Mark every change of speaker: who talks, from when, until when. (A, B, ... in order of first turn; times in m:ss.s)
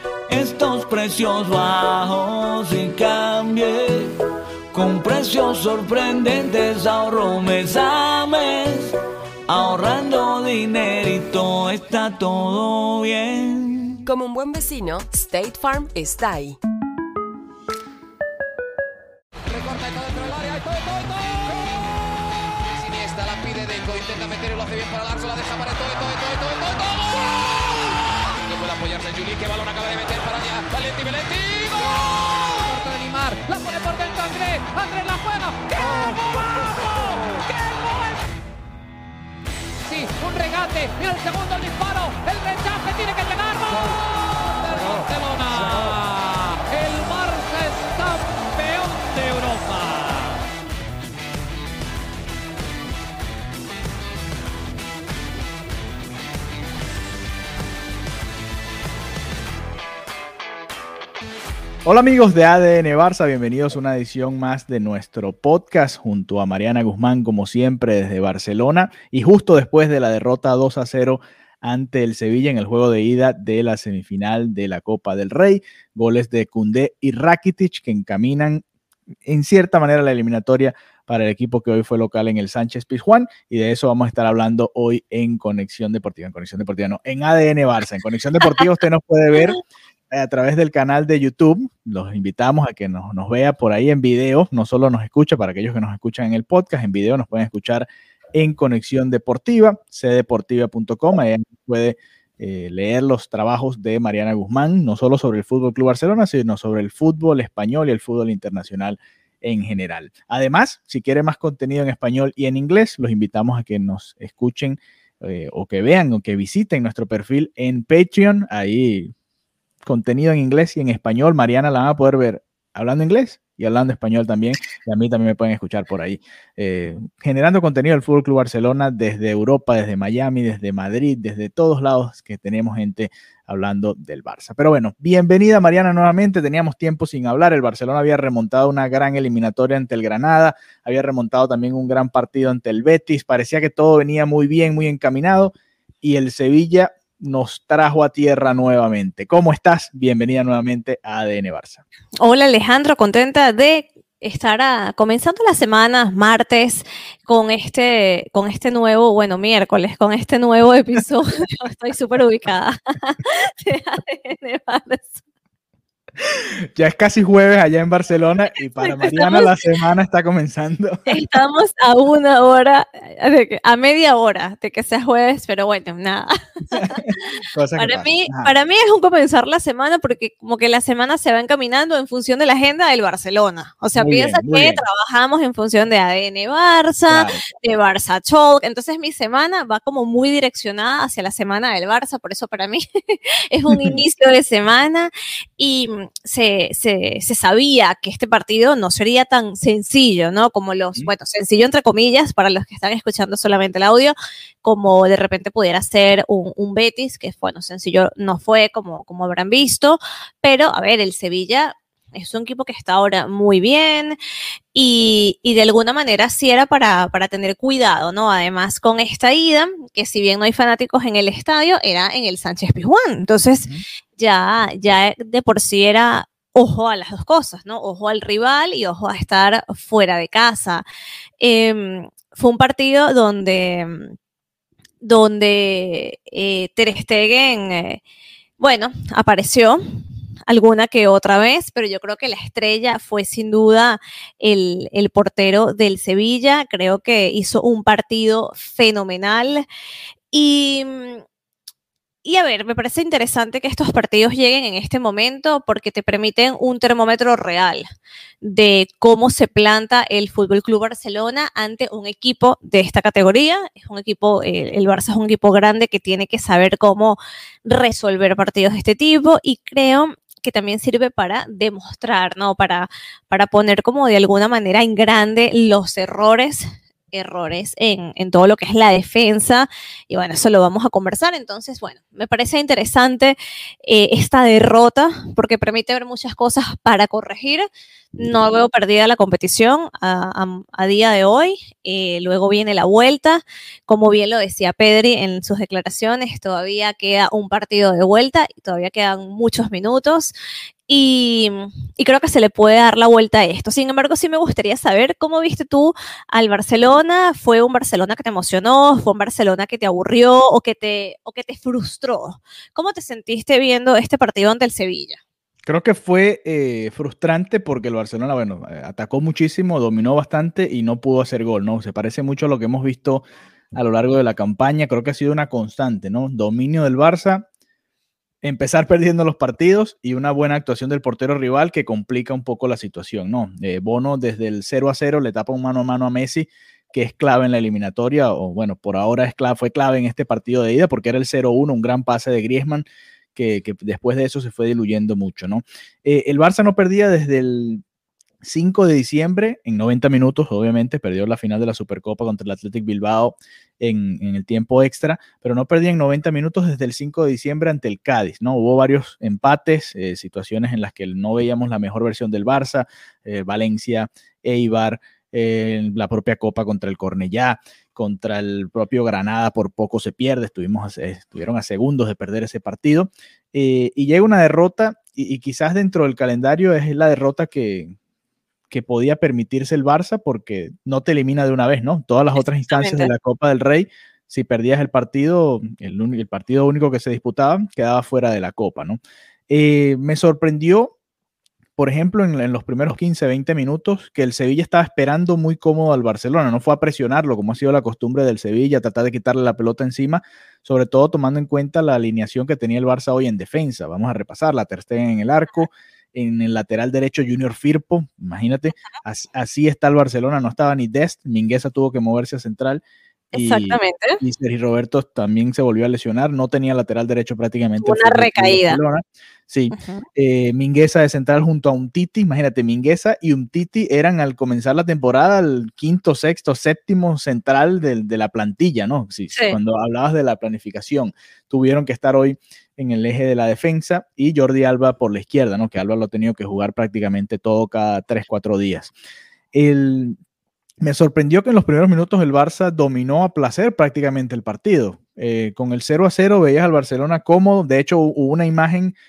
0:00.3-0:04.1 A
0:04.7-0:08.9 A
0:09.5-0:14.0 A
0:14.0-0:16.6 B
0:19.5-0:38.2 C
0:39.8-0:50.4 C
1:01.8-1:18.6 D
1:19.3-1:59.1 D
1:59.8-2:31.8 D
2:32.2-2:45.2 E
2:46.2-2:51.2 D
2:48.8-2:49.5 E
2:51.1-2:57.0 E
2:56.7-2:58.5 D
2:57.8-3:34.2 E
3:04.0-3:04.8 D
3:07.1-3:07.4 D
3:13.7-3:14.0 D
3:34.7-3:50.8 E
3:51.4-3:54.1 E
3:55.0-3:58.0 E
3:58.6-4:09.6 E
4:10.3-4:11.2 E
4:12.2-4:17.8 E
4:18.4-5:00.3 E
5:00.9-5:15.2 E
5:15.7-5:27.5 D
5:28.4-5:47.8 D
5:48.4-6:18.0 D
6:18.7-6:30.9 D
6:22.7-6:23.1 E
6:31.8-6:52.8 D
6:53.3-7:18.9 D
6:53.3-6:54.2 E
6:57.8-6:58.8 E
6:59.7-7:00.0 E
7:19.5-7:20.2 D
7:20.8-7:29.0 D